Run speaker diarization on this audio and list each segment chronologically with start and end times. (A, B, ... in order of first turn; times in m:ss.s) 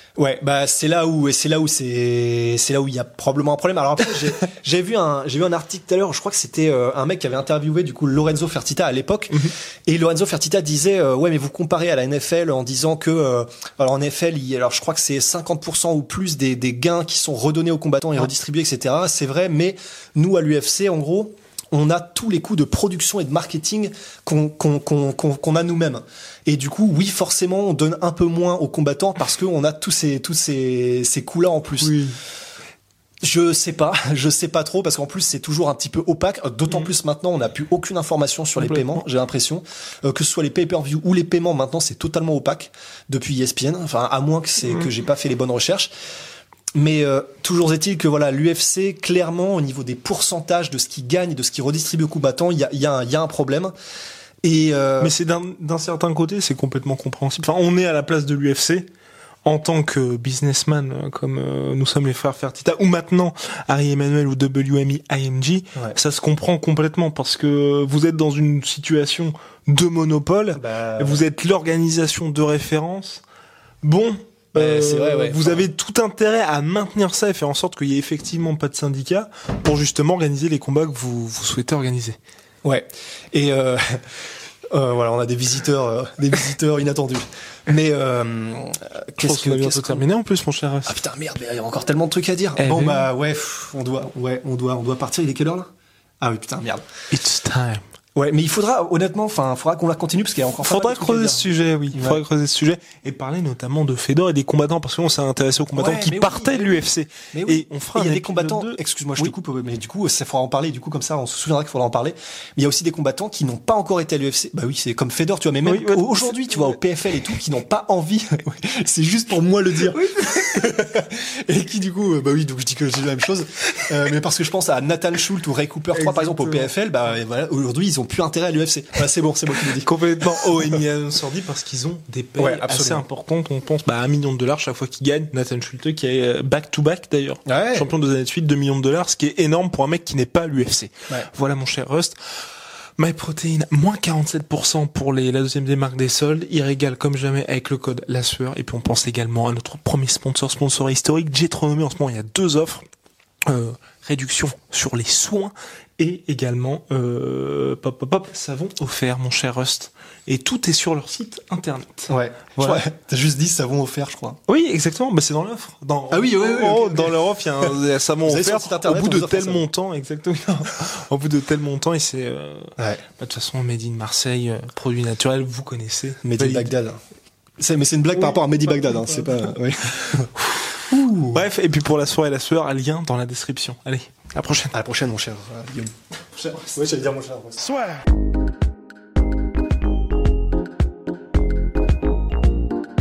0:00.2-0:32.0 A
0:31.8-0:32.2 B
0:33.2-0:45.9 A
0:38.6-0:39.0 B
0:46.8-0:53.7 A
0:54.4-0:55.1 A
0:55.0-0:58.9 B
0:59.4-1:13.2 B
1:10.6-1:11.2 A
1:13.8-1:22.2 B
1:14.6-1:15.7 A
1:22.6-1:24.2 A
1:24.7-1:30.0 A
1:29.2-1:31.0 B
1:30.9-1:35.7 A
1:32.6-1:33.1 B
1:36.2-1:36.9 A
1:37.1-1:37.8 B
1:38.2-1:42.2 A
1:40.6-1:49.3 B
1:45.8-2:09.9 A
1:55.6-1:56.8 B
1:59.8-2:00.7 B
2:05.9-2:06.7 B
2:09.8-2:22.2 B
2:12.4-2:13.0 A
2:17.5-2:17.9 A
2:23.0-2:32.8 B
2:33.5-2:42.8 B
2:42.1-2:44.4 A
2:44.5-2:56.7 B
2:46.1-2:47.7 A
2:48.2-2:49.6 A
2:52.8-2:53.0 A
2:56.2-2:57.0 A
2:57.6-3:00.3 A
2:58.2-2:59.5 B
3:00.4-3:04.7 B
3:00.9-3:01.4 A
3:04.7-3:07.8 A